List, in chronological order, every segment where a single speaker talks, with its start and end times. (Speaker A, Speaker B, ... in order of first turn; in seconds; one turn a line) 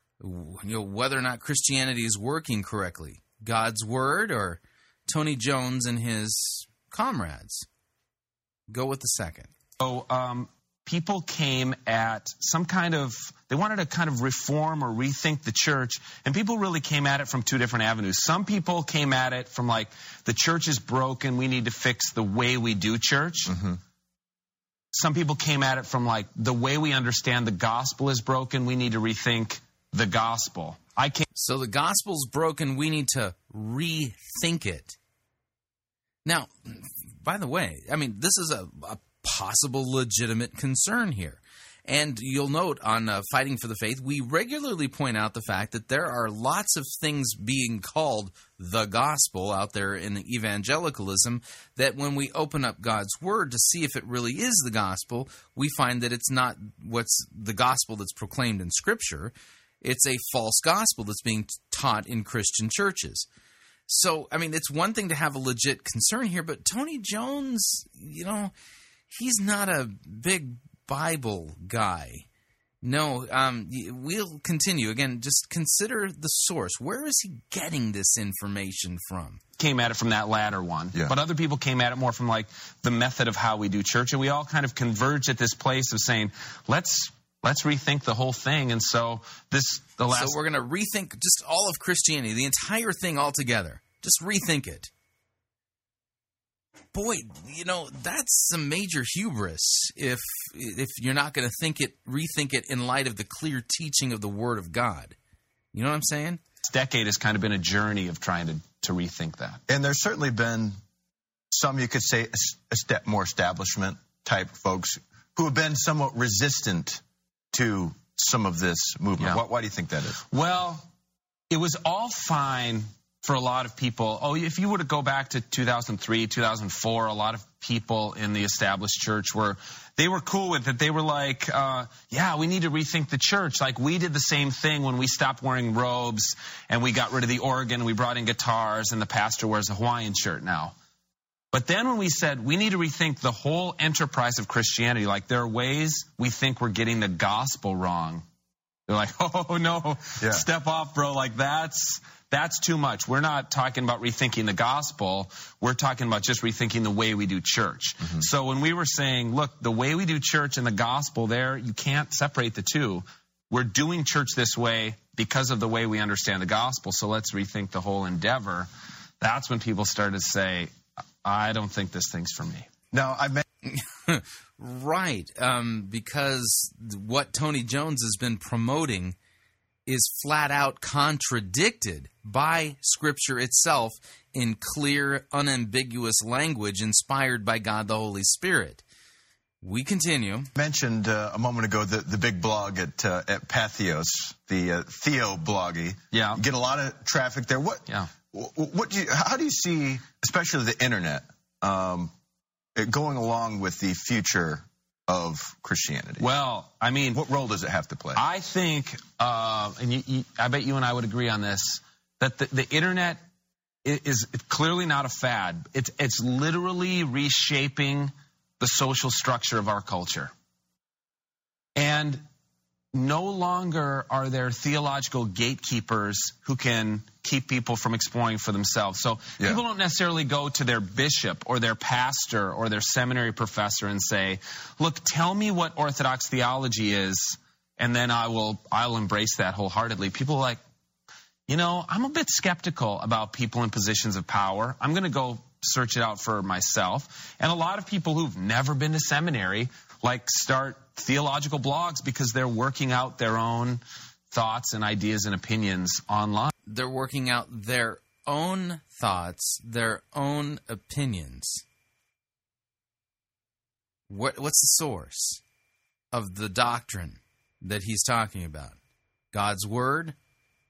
Speaker A: 0.2-7.6
Speaker A: 8.7-9.5
Speaker B: 9.8-23.5
Speaker C: 23.5-23.8
Speaker B: 24.9-31.2
Speaker A: 31.3-35.0
Speaker A: 36.2-63.3
Speaker A: 63.9-68.5
Speaker A: 69.1-72.2
Speaker A: 72.8-79.4
Speaker B: 79.6-90.4
Speaker A: 90.1-94.9
Speaker A: 96.9-105.2
Speaker A: 105.7-106.4
Speaker B: 106.6-109.6
Speaker C: 109.7-110.8
Speaker C: 111.5-120.2
Speaker B: 119.2-119.4
Speaker B: 120.2-120.9
Speaker B: 121.5-140.7
Speaker B: 141.5-148.2
Speaker B: 148.9-168.7
Speaker C: 150.2-150.5
Speaker C: 158.0-158.3
Speaker B: 169.2-172.7
Speaker C: 172.9-173.4
Speaker A: 173.6-179.2
Speaker A: 179.8-188.8
Speaker A: 189.6-190.5
Speaker C: 190.6-202.1
Speaker B: 196.1-196.4
Speaker C: 202.8-206.3
Speaker B: 206.2-207.2
Speaker C: 207.1-208.2
Speaker B: 208.1-213.2
Speaker B: 213.8-220.3
Speaker B: 221.8-222.2
Speaker B: 222.9-240.6
Speaker B: 241.5-256.5
Speaker A: 256.7-261.6
Speaker A: 264.1-265.4
Speaker A: 266.1-268.8
Speaker A: 269.3-270.1